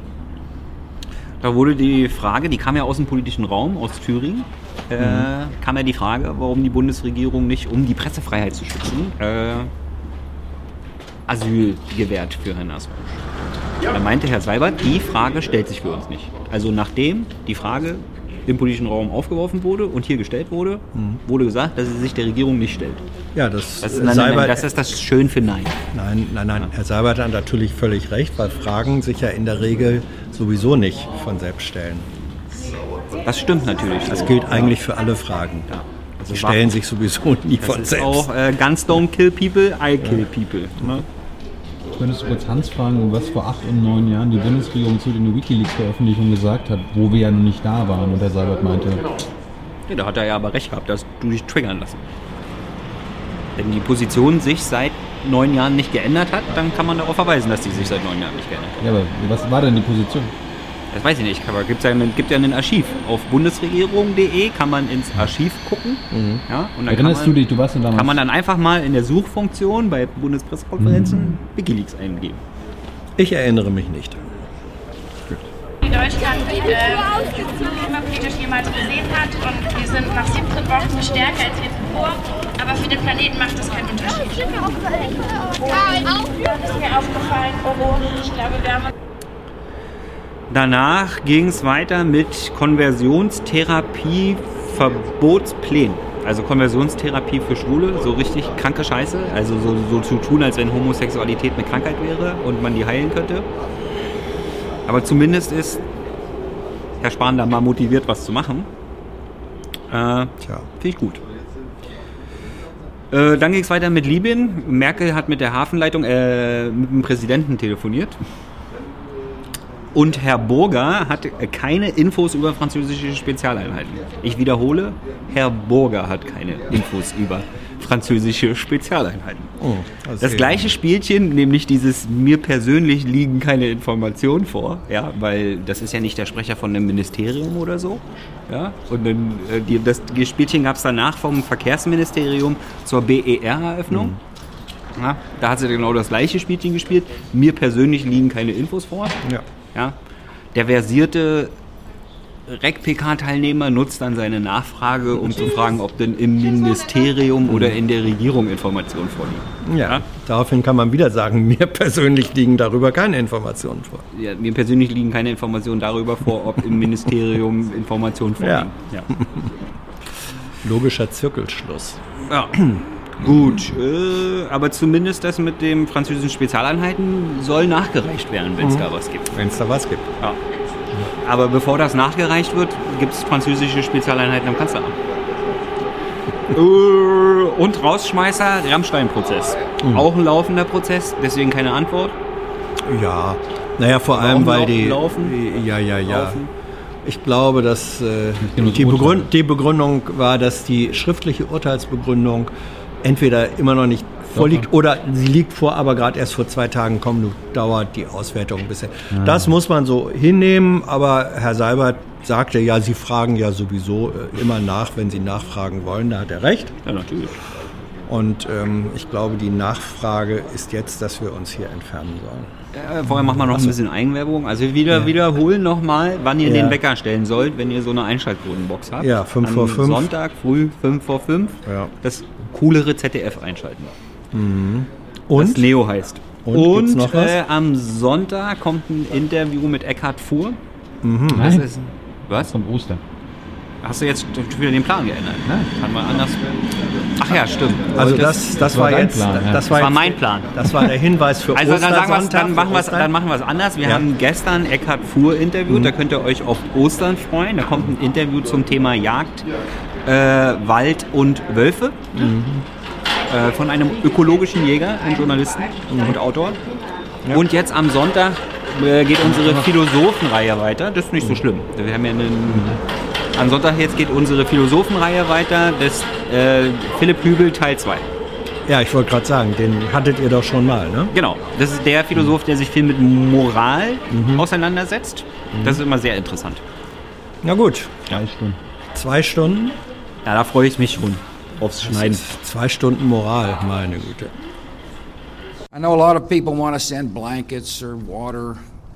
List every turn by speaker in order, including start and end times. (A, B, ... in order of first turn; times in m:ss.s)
0:01.4-0:09.7 A
0:05.0-0:05.3 B
0:11.3-0:13.2 A
0:13.9-0:23.0 A
0:20.9-0:21.2 B
0:23.3-0:24.6 B
0:23.8-0:25.8 A
0:25.9-0:32.1 B
0:33.2-0:34.8 A
0:34.1-0:35.7 B
0:35.7-0:36.8 A
0:36.2-0:38.3 B
0:37.6-0:41.0 A
0:40.0-0:40.3 B
0:40.8-0:41.0 B
0:42.0-0:49.0 C
0:49.9-0:52.0 A
0:53.6-0:58.8 A
0:58.8-1:00.3 C
1:00.9-1:12.4 A
1:06.1-1:06.4 B
1:06.9-1:08.2 C
1:10.8-1:11.3 C
1:13.2-1:14.2 B
1:15.8-1:24.8 D
1:25.5-1:28.9 D
1:30.5-1:43.4 A
1:44.9-1:45.8 A
1:47.0-1:48.7 A
1:49.9-1:51.2 A
1:53.1-1:58.2 A
1:59.9-2:09.5 A
2:09.6-2:10.7 B
2:10.2-2:24.2 A
2:23.9-2:24.2 B
2:25.0-2:29.2 A
2:30.5-2:31.5 A
2:32.5-2:40.0 A
2:37.5-2:37.7 B
2:39.6-2:44.0 B
2:44.1-2:49.1 A
2:48.4-2:49.4 B
2:50.6-2:52.0 B
2:52.3-2:59.4 A
2:58.6-3:00.0 B
3:01.2-3:04.9 A
3:06.5-3:12.2 A
3:12.8-3:16.4 B
3:14.1-3:15.4 A
3:16.0-3:16.5 A
3:17.0-3:22.5 B
3:18.4-3:19.3 C
3:23.0-3:36.7 B
3:24.3-3:24.6 C
3:29.1-3:29.5 C
3:36.8-3:37.4 A
3:38.1-3:42.5 B
3:42.7-3:53.9 A
3:43.4-3:43.7 B
3:46.4-3:46.8 B
3:49.0-3:50.1 B
3:51.6-3:51.9 B
3:54.3-3:55.7 B
3:55.4-4:00.6 A
3:56.4-3:57.4 B
4:01.0-4:01.5 B
4:01.3-4:01.6 C
4:01.3-4:02.5 A
4:02.4-4:03.0 C
4:03.8-4:06.5 A
4:07.2-4:08.4 A
4:07.9-4:13.1 B
4:08.0-4:09.7 C
4:09.7-4:10.6 A
4:11.5-4:19.5 A
4:15.7-4:15.9 B
4:20.0-4:22.1 A
4:22.1-4:22.6 B
4:23.3-4:26.6 A
4:25.9-4:26.2 B
4:27.3-4:32.8 A
4:29.3-4:29.6 B
4:32.5-4:32.8 B
4:33.3-4:38.0 A
4:38.7-4:41.1 B
4:41.1-4:46.6 A
4:44.1-4:44.4 B
4:45.5-4:45.8 B
4:47.4-4:48.2 B
4:48.1-4:48.6 C
4:48.9-4:49.8 B
4:50.2-4:52.2 A
4:51.8-4:54.3 B
4:55.7-4:58.6 E